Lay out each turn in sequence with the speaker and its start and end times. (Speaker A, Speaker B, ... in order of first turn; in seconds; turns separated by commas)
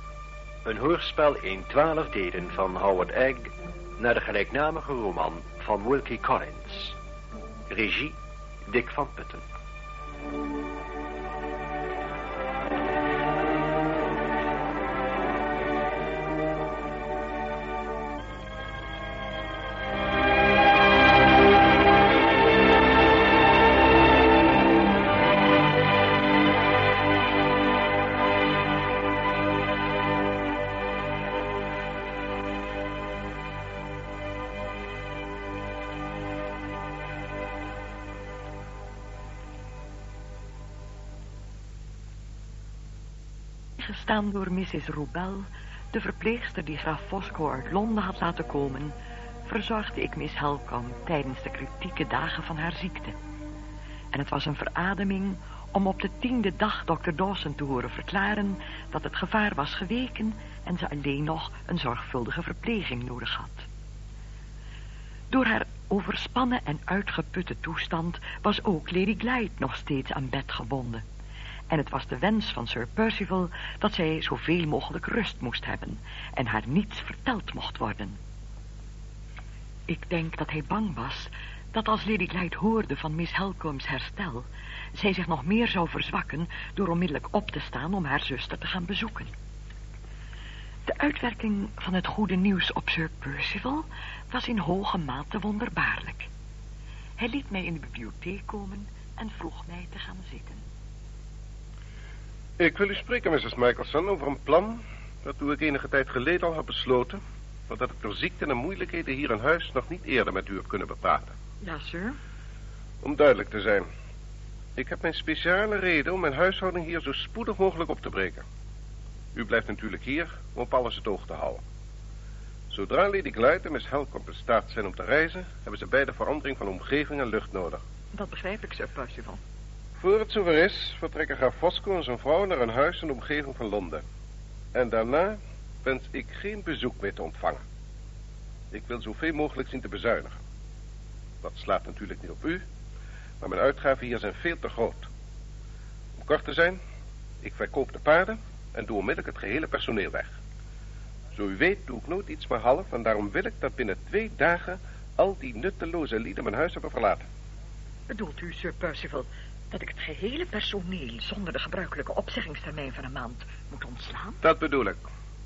Speaker A: 0.6-7.0, Speaker A: 7.7-9.4, Speaker B: 43.8-48.9, Speaker B: 49.5-53.1, Speaker B: 54.1-63.7, Speaker B: 65.3-71.0, Speaker B: 71.7-78.2, Speaker B: 79.9-89.3, Speaker B: 90.8-96.3, Speaker B: 97.2-100.6, Speaker C: 102.6-111.3, Speaker B: 111.6-112.2, Speaker C: 113.0-113.9, Speaker C: 114.8-118.4, Speaker C: 119.3-121.6, Speaker C: 122.7-127.8, Speaker B: 128.1-129.4, Speaker C: 130.0-134.0, Speaker C: 134.7-137.6, Speaker C: 138.7-140.4, Speaker C: 141.4-142.6, Speaker C: 143.4-145.1, Speaker C: 146.2-146.8, Speaker C: 147.4-150.3, Speaker C: 151.3-157.2, Speaker B: 158.1-164.4, Speaker C: 164.4-165.1